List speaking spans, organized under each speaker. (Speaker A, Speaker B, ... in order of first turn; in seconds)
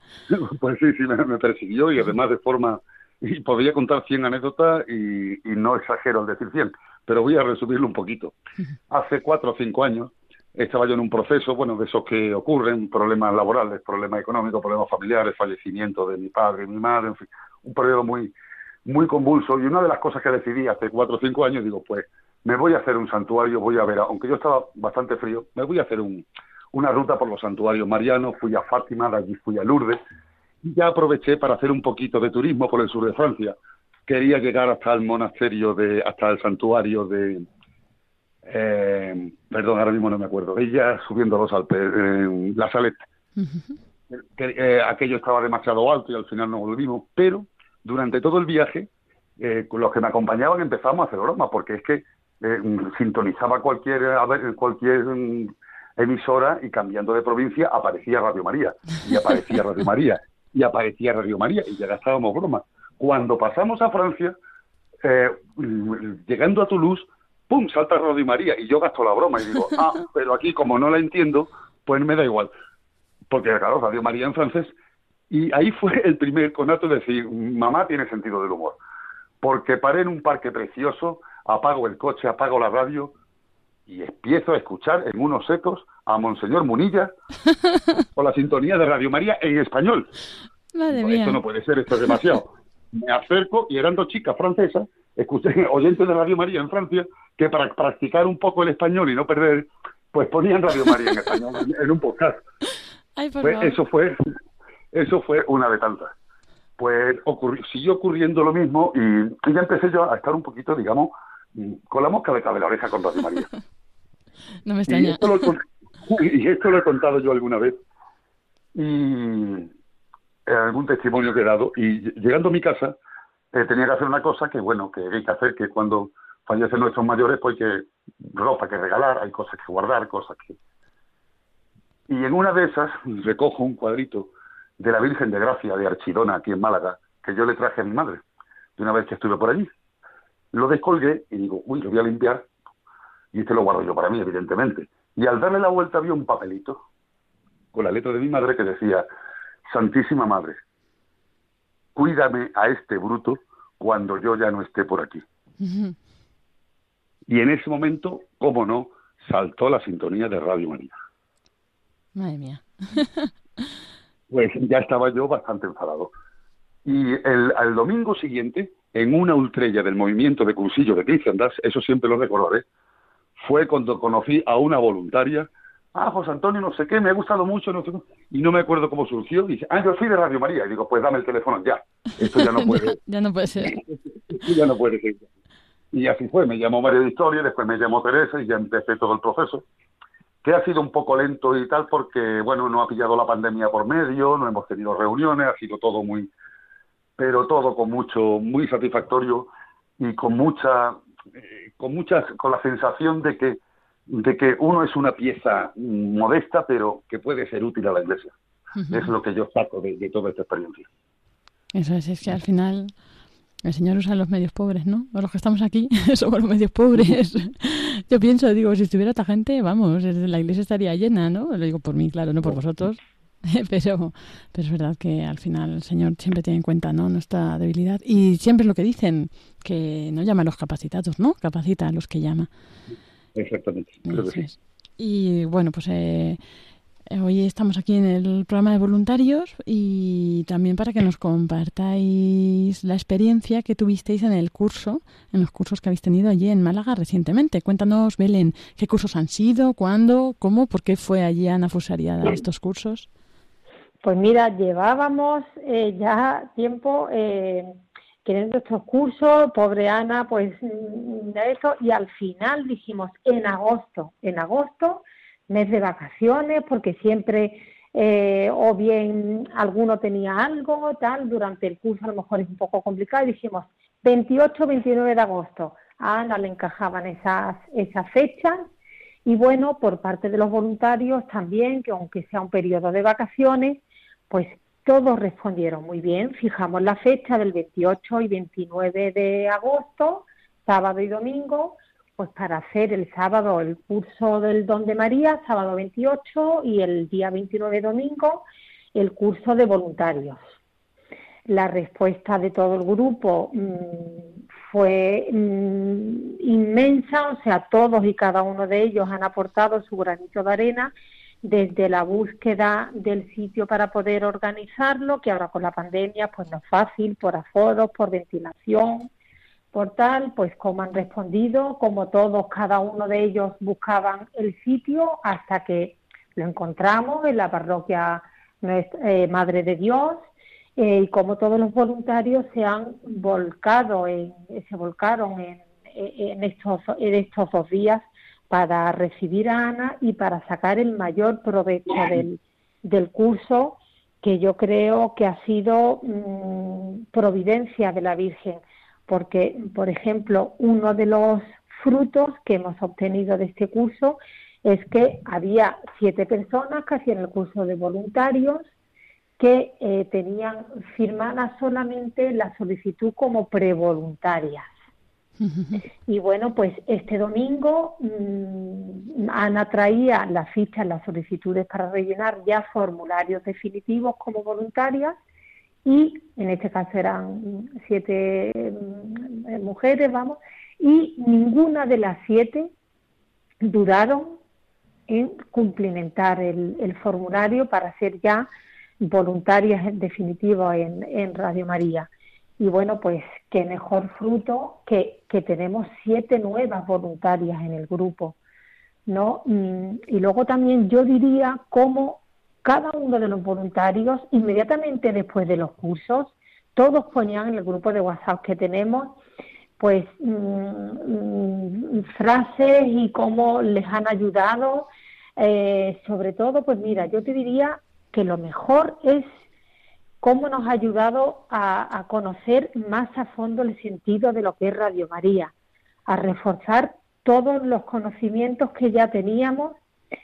Speaker A: 0.3-8.3, 8.9-18.3, 18.9-30.0, 30.6-33.5, 34.1-37.5, 38.4-43.0, 44.1-48.9, 49.4-64.3, 65.0-72.5, 73.3-74.7, 75.3-78.8, 79.4-83.1, 83.9-87.1, 88.1-90.1, 90.9-102.4, 103.4-104.2, 104.9-106.1, 106.8-113.5, 114.9-117.8, 118.7-119.7, 120.5-123.0, 123.5-130.6, 132.1-138.2, 138.8-139.7, 140.5-142.4, 143.3-146.8, 147.7-149.1, 149.7-150.6, 151.9-155.2, 157.3-160.9, 164.3-166.1, 166.8-172.6, 173.4-183.0, 183.7-185.2, 185.9-189.6, 190.4-196.3, 197.2-203.6, 204.1-208.3, 208.9-210.9, 233.3-234.5
Speaker B: 43.4-43.8, 90.7-91.4, 103.2-103.8, 114.7-115.5, 155.6-155.9, 162.2-163.3, 182.3-183.8, 208.8-209.1, 211.7-212.9, 213.6-232.5, 234.1-236.4, 237.1-253.1, 365.4-365.8
Speaker C: 254.0-278.6, 279.2-300.4, 301.4-319.1, 319.7-358.7, 359.4-364.7, 366.1-375.2, 375.8-382.7, 383.6-384.4, 385.1-388.5, 389.0-398.4, 399.1-409.2, 409.8-419.3, 420.2-425.5, 426.1-429.8